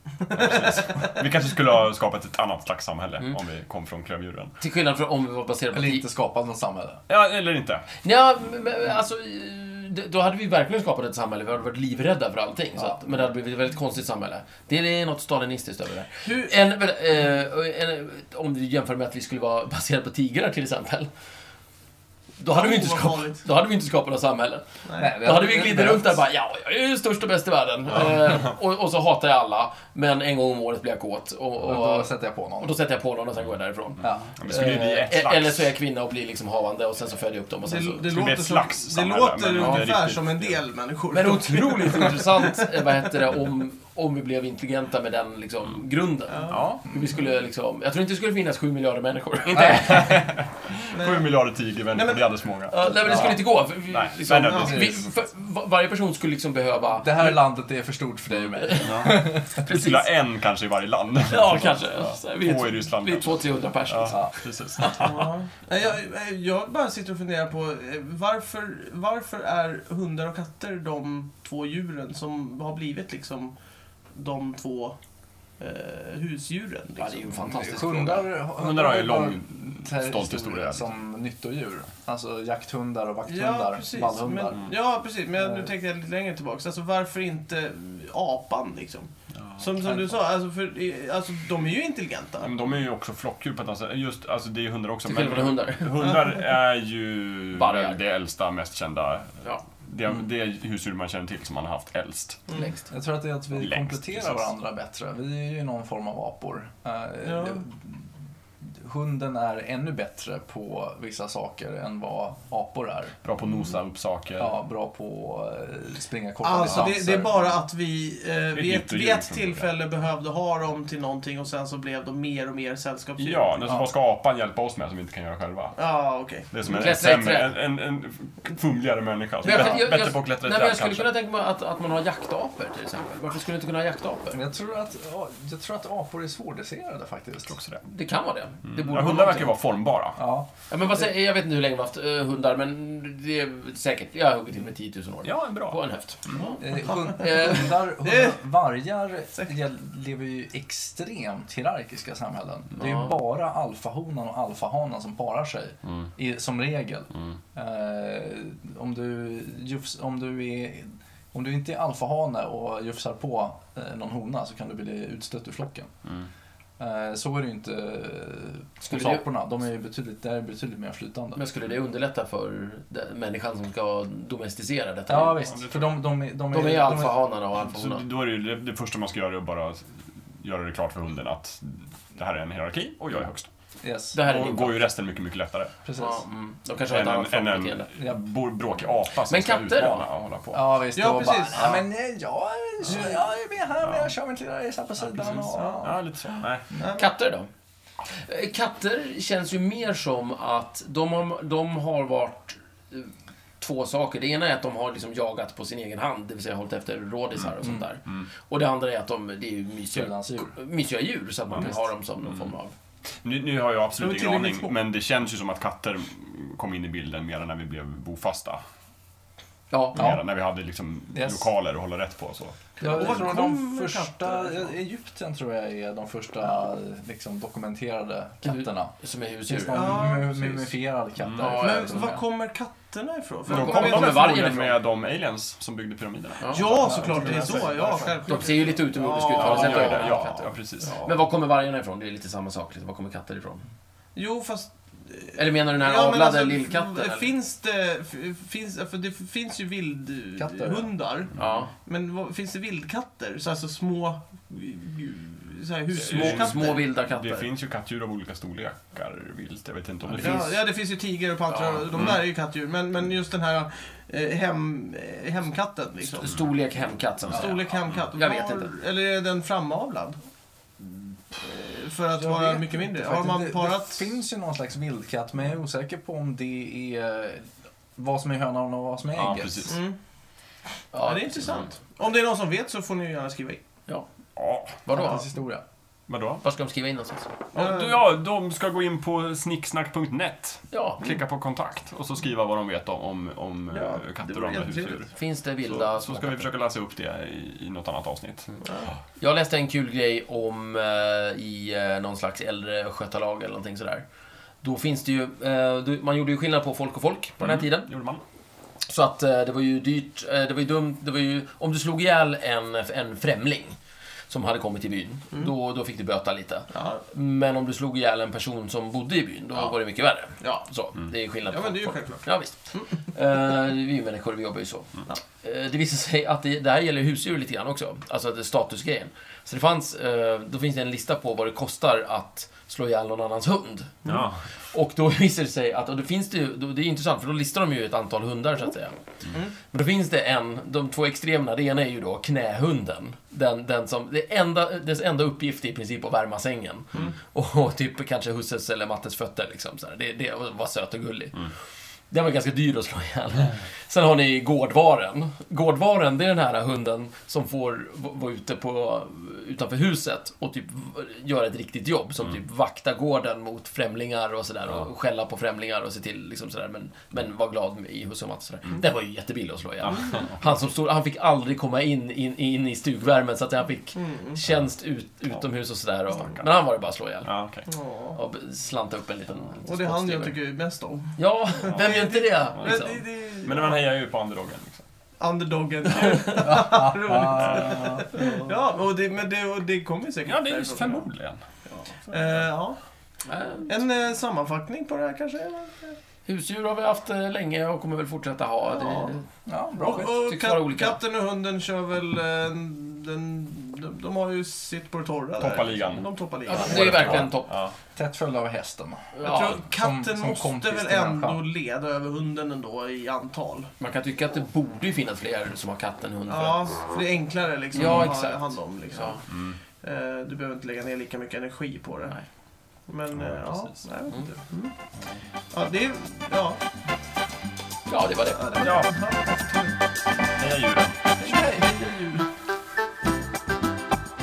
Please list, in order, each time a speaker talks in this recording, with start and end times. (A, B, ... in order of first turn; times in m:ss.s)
0:00.2-0:04.5 A
0:00.5-0:00.9 B
0:04.6-0:06.0 C
0:05.7-0:07.0 D
0:07.1-0:07.9 A
0:08.0-0:21.1 C
0:16.2-0:16.6 B
0:22.4-0:38.0 C
0:22.4-0:23.4 B
0:24.8-0:25.2 B
0:25.0-0:26.2 D
0:31.6-0:32.8 D
0:34.0-0:34.3 D
0:34.4-0:35.7 A
0:37.6-0:43.0 B
0:38.1-0:40.6 A
0:39.6-0:39.9 C
0:41.1-0:50.3 C
0:46.3-0:46.7 B
0:46.5-0:46.8 A
0:49.5-0:55.0 A
0:50.9-0:51.3 B
0:51.9-0:52.2 B
0:52.7-0:57.4 C
0:52.9-0:53.4 D
0:54.3-0:54.8 B
0:54.5-0:55.0 D
0:57.0-0:59.6 D
0:58.6-1:00.1 C
0:58.7-1:05.2 A
1:01.3-1:05.3 C
1:04.1-1:04.3 D
1:04.9-1:13.5 B
1:14.1-1:15.0 B
1:15.6-1:17.5 B
1:17.0-1:18.3 C
1:17.4-1:24.7 D
1:18.6-1:20.9 A
1:23.2-1:32.5 B
1:25.4-1:25.7 D
1:29.3-1:30.0 A
1:32.4-1:42.4 A
1:35.0-1:36.1 C
1:37.5-1:38.0 C
1:42.5-1:42.8 C
1:42.9-1:53.2 D
1:43.5-1:44.5 A
1:47.2-1:47.6 B
1:53.2-1:54.5 A
1:54.4-1:57.6 D
1:56.4-2:03.5 B
1:56.6-1:56.9 A
1:58.5-1:59.7 A
2:03.2-2:11.1 A
2:03.6-2:03.9 D
2:05.8-2:06.5 B
2:06.6-2:07.5 C
2:09.4-2:14.4 C
2:14.3-2:17.5 D
2:17.5-2:17.8 A
2:17.8-2:19.5 C
2:18.6-2:20.2 A
2:20.2-2:20.5 D
2:20.7-2:27.7 C
2:25.2-2:26.4 A
2:26.6-2:45.9 D
2:26.9-2:28.4 B
2:32.8-2:33.1 C
2:46.8-2:51.4 D
2:48.8-2:49.2 C
2:51.3-2:55.4 C
2:55.1-2:57.2 D
2:55.4-2:56.0 A
2:56.5-2:58.0 C
2:57.6-3:03.5 A
3:03.8-3:04.2 D
3:04.1-3:04.8 C
3:04.2-3:05.7 A
3:05.8-3:06.2 D
3:06.0-3:07.9 C
3:06.9-3:10.7 A
3:09.3-3:10.1 C
3:10.5-3:16.4 D
3:10.9-3:11.8 B
3:13.8-3:14.1 A
3:15.1-3:16.6 A
3:16.7-3:17.1 B
3:16.9-3:17.5 C
3:18.1-3:32.7 C
3:27.6-3:27.9 D
3:29.9-3:30.5 D
3:33.2-3:38.6 A
3:34.0-3:34.8 B
3:39.7-3:40.1 C
3:39.9-3:42.6 A
3:40.0-3:40.3 D
3:41.1-3:41.5 D
3:42.8-3:43.5 C
3:42.8-3:48.9 D
3:42.8-3:44.7 B
3:48.4-3:50.2 C
3:49.5-3:52.2 D
3:49.7-3:50.7 B
3:51.2-3:51.6 A
3:51.4-3:52.1 C
3:51.6-3:54.3 B
3:53.5-3:57.7 A
3:53.5-3:54.8 C
3:56.4-3:56.7 C
3:56.5-4:01.1 B
3:56.8-3:58.2 D
3:58.2-4:03.6 C
3:59.1-4:01.0 A
4:04.1-4:16.8 B
4:05.3-4:07.3 C
4:10.4-4:10.9 D
4:11.3-4:11.7 C
4:16.0-4:20.5 A
4:16.1-4:17.5 C
4:20.1-4:20.5 C
4:20.1-4:26.3 B
4:21.5-4:22.0 C
4:21.9-4:22.2 A
4:26.1-4:28.7 C
4:27.3-4:30.2 B
4:27.3-4:27.6 D
4:31.3-4:34.1 B
4:32.2-4:39.7 D
4:39.1-4:39.8 A
4:39.7-4:40.0 B
4:40.9-4:41.7 C
4:41.0-4:43.6 B
4:44.4-4:44.8 A
4:44.7-4:45.2 C
4:44.9-4:45.6 D
4:46.1-4:46.4 A
4:46.4-4:47.3 C
4:47.5-4:55.1 A
4:47.5-4:48.0 B
4:50.7-4:51.0 C
4:53.7-4:55.1 B
4:55.1-4:56.5 C
4:55.6-4:58.5 A
4:58.6-4:58.9 B
4:59.2-5:04.0 C
5:04.6-5:07.9 C
5:07.4-5:08.2 A
5:08.8-5:13.8 C
5:14.3-5:34.0 C
5:16.7-5:17.0 B
5:20.4-5:20.6 B
5:21.5-5:22.9 B
5:34.0-5:34.4 A
5:34.7-5:38.9 C
5:39.6-5:51.5 C
5:52.1-6:17.3 C
6:09.8-6:10.6 A
6:09.9-6:10.2 B
6:13.9-6:14.4 B
6:17.2-6:17.6 A
6:17.7-6:18.2 B
6:18.1-6:20.4 C
6:19.6-6:23.8 B
6:21.2-6:23.0 C
6:22.6-6:22.9 A
6:23.4-6:24.8 A
6:25.2-6:31.1 B
6:26.4-6:28.2 D
6:27.3-6:27.9 A
6:30.2-6:31.4 A
6:32.1-6:32.8 B
6:33.2-6:33.7 C
6:33.7-6:36.0 B
6:36.3-6:39.3 C
6:38.7-6:39.2 B
6:39.4-6:40.1 D
6:39.8-6:41.0 C
6:39.8-6:47.2 B
6:45.4-6:47.7 A
6:46.5-6:47.5 C
6:48.0-6:51.4 D
6:49.1-6:49.6 C
6:49.2-6:53.7 B
6:53.8-6:56.6 C
6:56.3-7:02.2 B
6:57.7-6:59.2 C
6:59.3-6:59.6 A
7:02.9-7:04.7 B
7:03.1-7:03.8 A
7:05.5-7:06.6 B
7:07.9-7:08.8 C
7:08.3-7:09.8 B
7:08.6-7:08.9 A
7:10.4-7:11.2 A
7:11.2-7:12.3 B